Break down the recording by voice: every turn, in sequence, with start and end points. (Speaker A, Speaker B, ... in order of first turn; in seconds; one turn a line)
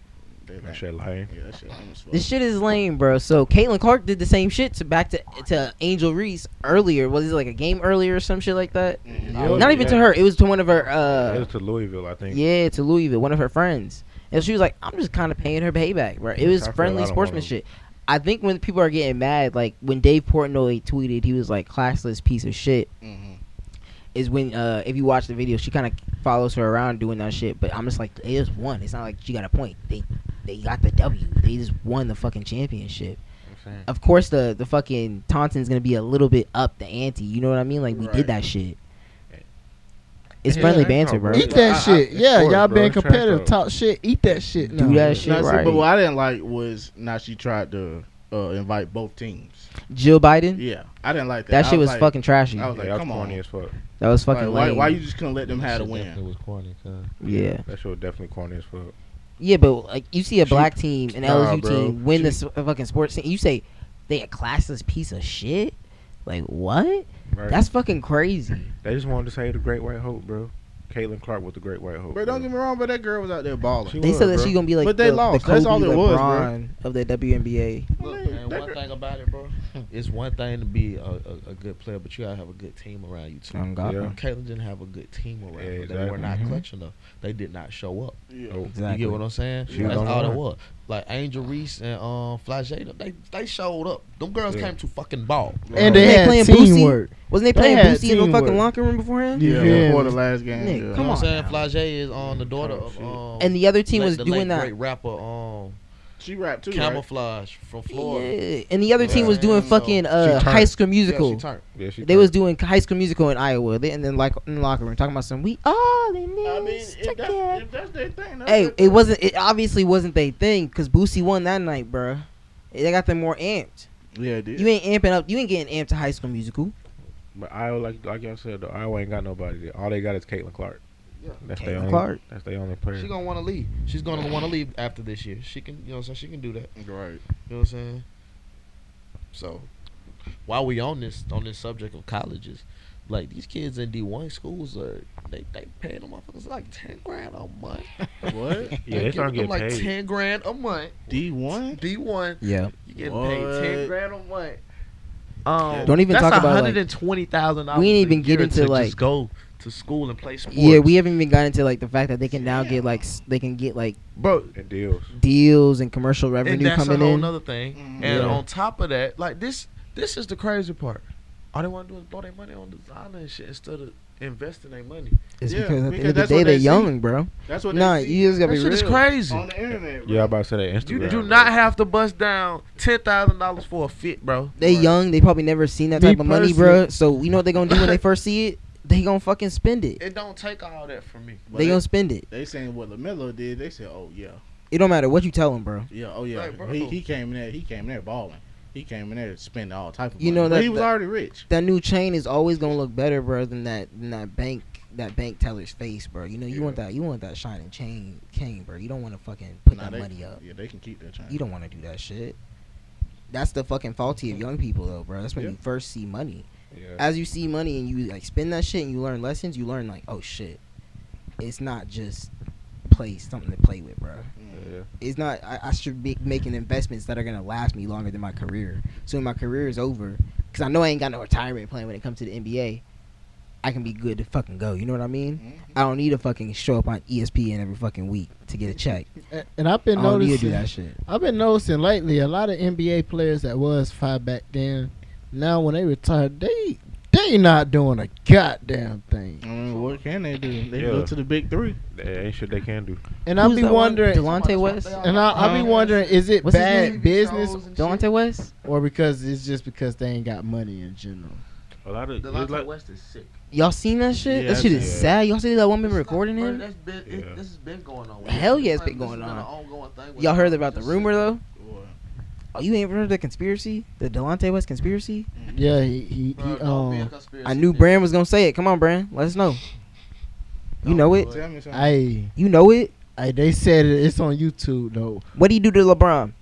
Speaker A: 0.4-2.3
Speaker B: 0.6-1.3
Speaker C: 2.1-11.5
Speaker A: 9.1-9.9
Speaker D: 9.1-10.0
Speaker E: 9.3-9.9
Speaker B: 9.5-10.0
Speaker B: 11.2-12.4
Speaker C: 12.3-22.9
Speaker B: 16.4-17.5
Speaker A: 23.0-23.4
Speaker C: 24.1-33.2
Speaker B: 33.5-33.9
Speaker C: 33.9-38.8
Speaker A: 37.9-38.3
Speaker C: 40.4-41.6
Speaker B: 40.5-43.6
Speaker A: 40.5-42.1
Speaker E: 41.3-45.4
Speaker B: 44.5-45.4
Speaker C: 44.7-45.9
Speaker A: 45.2-49.7
Speaker C: 49.9-50.6
Speaker A: 50.6-53.4
Speaker C: 51.5-52.7
Speaker B: 52.7-53.7
Speaker C: 54.0-55.0
Speaker A: 54.3-56.2
Speaker D: 55.5-57.1
Speaker C: 57.2-57.6
Speaker B: 57.2-59.0
Speaker C: 59.4-65.8
Speaker B: 60.4-62.4
Speaker C: 66.3-68.7
Speaker B: 67.3-67.7
Speaker B: 68.8-72.5
Speaker A: 72.1-74.0
Speaker B: 73.8-74.6
Speaker C: 74.0-77.9
Speaker A: 74.8-76.5
Speaker A: 78.0-78.8
Speaker D: 78.0-88.2
Speaker C: 83.5-84.1
Speaker B: 83.8-84.2
Speaker B: 85.5-86.4
Speaker C: 86.2-86.6
Speaker A: 88.3-88.6
Speaker C: 88.7-89.2
Speaker D: 88.8-95.7
Speaker A: 89.7-90.1
Speaker B: 89.7-90.4
Speaker B: 94.5-94.7
Speaker A: 95.7-96.2
Speaker E: 95.8-98.7
Speaker C: 95.8-99.9
Speaker E: 99.4-100.2
Speaker A: 99.4-101.1
Speaker C: 100.5-101.7
Speaker D: 101.0-105.8
Speaker A: 102.2-103.2
Speaker C: 103.4-104.7
Speaker A: 106.2-107.0
Speaker D: 106.7-108.3
Speaker C: 107.9-111.4
Speaker D: 109.0-109.8
Speaker A: 109.0-110.0
Speaker B: 110.2-110.7
Speaker D: 111.0-111.6
Speaker B: 111.7-112.3
Speaker C: 112.0-117.6
Speaker A: 116.5-119.1
Speaker C: 118.5-123.9
Speaker A: 124.2-124.7
Speaker C: 124.6-126.7
Speaker B: 127.3-130.8
Speaker D: 131.2-131.5
Speaker B: 131.4-133.1
Speaker C: 131.6-132.2
Speaker D: 132.9-136.7
Speaker A: 136.8-137.2
Speaker D: 137.5-138.1
Speaker D: 139.3-139.7
Speaker D: 140.5-147.9
Speaker A: 148.3-148.8
Speaker B: 148.8-149.9
Speaker D: 148.9-151.2
Speaker A: 151.1-151.8
Speaker D: 151.7-154.6
Speaker C: 152.4-152.7
Speaker A: 153.0-153.9
Speaker D: 155.4-160.9
Speaker A: 155.6-156.0
Speaker C: 155.8-156.8
Speaker C: 157.7-159.0
Speaker C: 160.5-164.0
Speaker A: 162.3-163.1
Speaker D: 164.2-164.5
Speaker B: 164.5-165.1
Speaker C: 165.2-167.3
Speaker D: 166.4-175.2
Speaker A: 167.8-168.4
Speaker C: 168.0-168.4
Speaker B: 168.1-168.4
Speaker C: 175.4-179.0
Speaker A: 175.5-176.9
Speaker A: 177.5-178.6
Speaker D: 178.4-179.5
Speaker A: 179.3-180.3
Speaker B: 179.7-181.6
Speaker A: 180.9-181.6
Speaker D: 180.9-184.6
Speaker C: 184.6-190.0
Speaker A: 184.6-185.0
Speaker D: 185.9-186.9
Speaker D: 187.6-188.0
Speaker D: 190.0-191.4
Speaker A: 191.5-194.4
Speaker C: 191.5-192.3
Speaker C: 194.7-195.9
Speaker A: 195.9-201.5
Speaker D: 196.3-197.0
Speaker C: 200.2-200.9
Speaker C: 201.5-210.4
Speaker A: 206.5-206.8
Speaker A: 209.7-211.4
Speaker C: 211.3-212.4
Speaker C: 213.3-216.5
Speaker B: 216.7-217.0
Speaker C: 217.0-220.6
Speaker C: 221.4-222.3
Speaker C: 222.9-224.3
Speaker A: 224.4-224.8
Speaker B: 224.5-224.9
Speaker C: 225.0-232.8
Speaker C: 233.6-239.1
Speaker A: 235.4-235.7
Speaker E: 239.3-249.4
Speaker C: 239.9-241.0
Speaker A: 249.4-251.8
Speaker D: 249.7-250.0
Speaker B: 250.7-251.1
Speaker B: 251.9-253.0
Speaker E: 253.2-254.3
Speaker C: 253.4-255.2
Speaker D: 254.2-258.1
Speaker E: 255.0-257.7
Speaker A: 255.3-255.8
Speaker C: 256.4-257.0
Speaker C: 257.8-258.5
Speaker E: 258.6-261.4
Speaker B: 261.9-262.7
Speaker D: 262.2-263.3
Speaker C: 263.5-266.6
Speaker A: 264.2-265.1
Speaker B: 264.5-265.2
Speaker D: 265.8-271.3
Speaker B: 267.1-267.4
Speaker C: 268.2-269.5
Speaker C: 270.2-271.4
Speaker A: 271.6-271.9
Speaker C: 272.6-275.3
Speaker A: 275.4-275.7
Speaker E: 275.5-277.1
Speaker D: 276.4-278.1
Speaker C: 277.4-279.6
Speaker C: 280.8-281.3
Speaker D: 280.8-281.5
Speaker A: 281.3-281.9
Speaker E: 281.7-282.3
Speaker C: 282.4-282.9
Speaker E: 283.1-285.2
Speaker C: 285.4-286.3